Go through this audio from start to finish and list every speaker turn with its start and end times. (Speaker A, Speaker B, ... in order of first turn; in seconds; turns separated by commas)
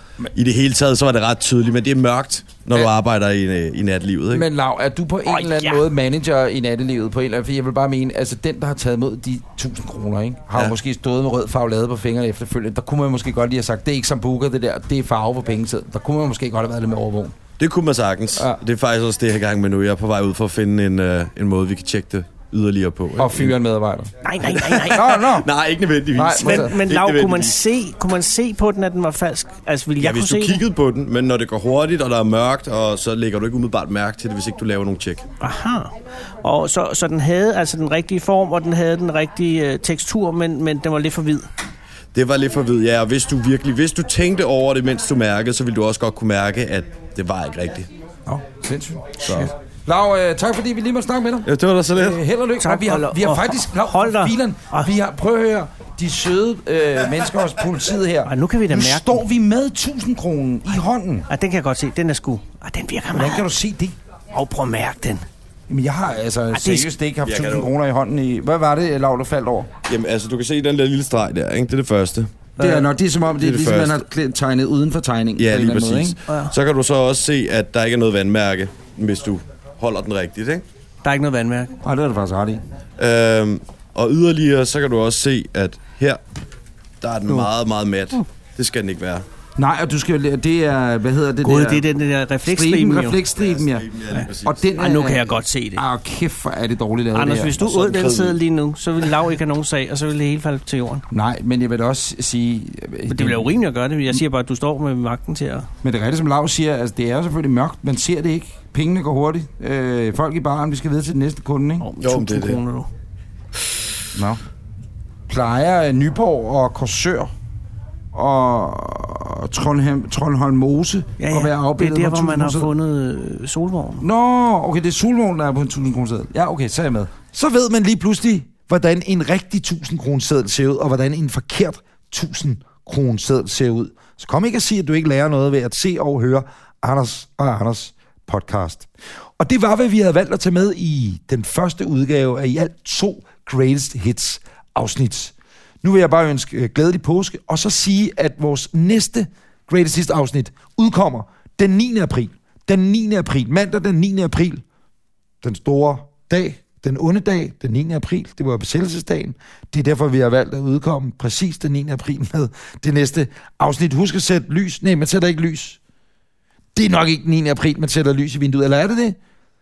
Speaker A: 0.3-4.5, Speaker B: 4.3-17.4, Speaker C: 5.3-5.8, Speaker A: 17.6-23.6, Speaker B: 23.2-24.1, Speaker C: 24.2-25.3, Speaker A: 24.6-27.5, Speaker B: 24.8-25.5, Speaker B: 26.1-26.8, Speaker C: 26.4-30.6, Speaker A: 30.0-35.3, Speaker C: 35.4-41.5, Speaker A: 42.1-47.9, Speaker B: 48.3-61.3, Speaker A: 49.2-49.5, Speaker A: 51.5-52.2, Speaker C: 52.6-54.9, Speaker C: 58.2-59.2, Speaker C: 61.3-63.5, Speaker B: 63.1-64.0, Speaker C: 64.3-65.2, Speaker B: 65.7-69.7, Speaker C: 66.5-66.9, Speaker A: 67.2-67.7, Speaker A: 69.9-72.5, Speaker B: 72.6-76.2, Speaker C: 72.6-72.9, Speaker A: 73.4-74.0, Speaker A: 75.4-80.6, Speaker C: 76.3-76.5, Speaker C: 81.0-81.7, Speaker B: 81.8-82.6, Speaker A: 83.0-86.2, Speaker A: 87.0-89.2, Speaker B: 89.6-91.9, Speaker C: 91.4-93.2, Speaker B: 92.4-97.7, Speaker A: 93.4-94.6, Speaker C: 94.1-95.8, Speaker C: 97.1-101.0, Speaker A: 97.6-98.4, Speaker B: 101.1-103.6, Speaker C: 103.1-105.7, Speaker B: 105.8-111.9, Speaker C: 111.8-112.9, Speaker A: 112.0-112.6, Speaker B: 114.1-114.4, Speaker B: 115.3-117.3, Speaker B: 118.1-122.7, Speaker C: 121.2-124.1, Speaker B: 124.0-154.6, Speaker B: 155.4-165.8, Speaker B: 166.8-169.2